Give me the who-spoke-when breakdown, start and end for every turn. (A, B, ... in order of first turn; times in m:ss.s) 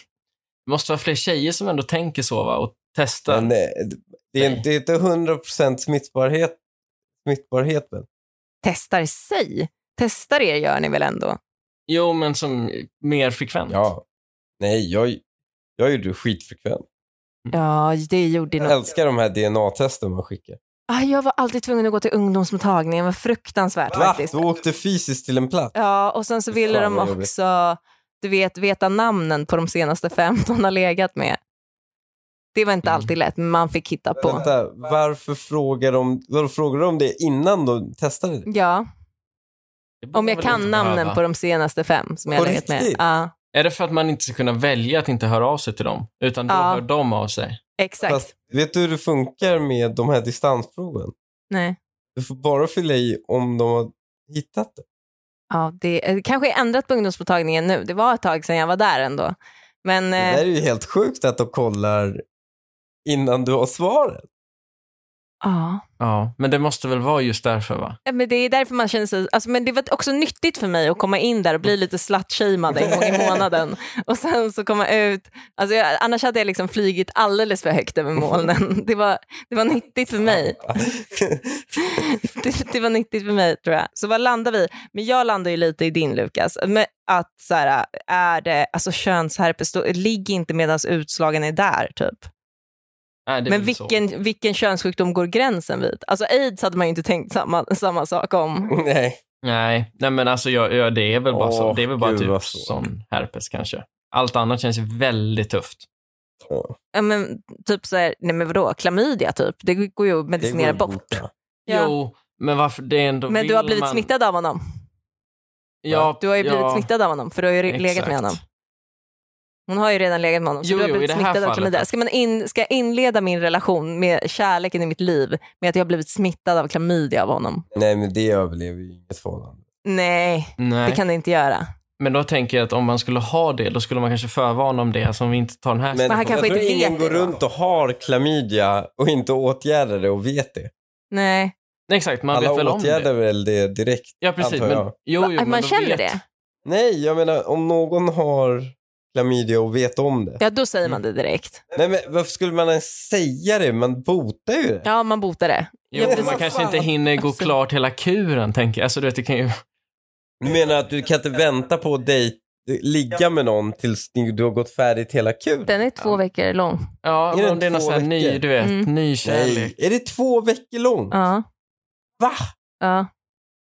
0:00.7-0:03.5 A
0:03.3-0:06.6 B
0:07.2-0:08.0 B
0:08.6-0:11.4 C
0:11.9-0:13.9 A
0:13.7-0:14.0 B
0:14.6-0:15.2 B
0:15.8-0:16.8 B
0:17.5-0:18.8 C
0:18.6-0:20.6 B
0:20.9-0:24.4 C
0:23.9-0:25.7 B
0:25.7-0:31.4 C
0:26.5-0:27.3 B
0:32.5-0:34.4 C
0:32.8-0:33.1 A
0:34.2-0:38.5 B
0:38.5-0:38.8 C
0:40.0-0:41.2 A
0:40.1-0:43.3 C
0:42.4-0:43.0 B
0:43.5-0:47.6 A
0:46.5-0:46.8 C
0:47.8-0:48.3 C
0:48.1-0:51.1 B
0:51.5-0:51.8 C
0:52.2-0:54.8 B
0:55.5-1:00.4 C
1:00.2-1:02.2 B
1:03.0-1:04.3 B
1:05.4-1:05.8 C
1:06.0-1:08.0 A
1:08.0-1:20.6 C
1:12.8-1:13.4 B
1:20.3-1:21.6 B
1:21.8-1:32.3 C
1:33.3-1:34.0 A
1:33.5-1:38.7 C
1:38.7-1:39.2 B
1:39.4-1:45.8 A
1:41.3-1:42.7 B
1:46.4-1:46.7 B
1:46.9-1:51.9 C
1:50.4-1:51.3 B
1:51.7-1:54.1 A
1:53.3-1:54.6 C
1:55.8-1:56.9 A
1:56.2-1:58.4 C
1:57.7-1:58.4 A
1:59.7-2:07.6 C
2:00.6-2:01.9 A
2:07.7-2:09.6 B
2:09.8-2:11.6 C
2:10.6-2:11.0 A
2:12.0-2:16.4 A
2:15.9-2:20.7 B
2:16.1-2:17.4 C
2:21.1-2:21.5 C
2:21.9-2:23.1 A
2:22.3-2:24.9 B
2:24.2-2:26.2 A
2:25.2-2:26.2 C
2:26.6-2:30.4 B
2:30.4-2:31.6 C
2:31.7-2:34.8 B
2:34.8-2:37.5 C
2:35.9-2:39.6 A
2:36.0-2:36.9 B
2:40.4-2:45.8 B
2:45.6-2:46.8 C
2:47.0-2:49.7 A
2:47.3-2:48.4 B
2:48.6-2:48.9 C
2:49.2-2:51.1 B
2:51.1-2:51.4 C
2:52.2-2:52.4 B
2:52.8-2:53.1 C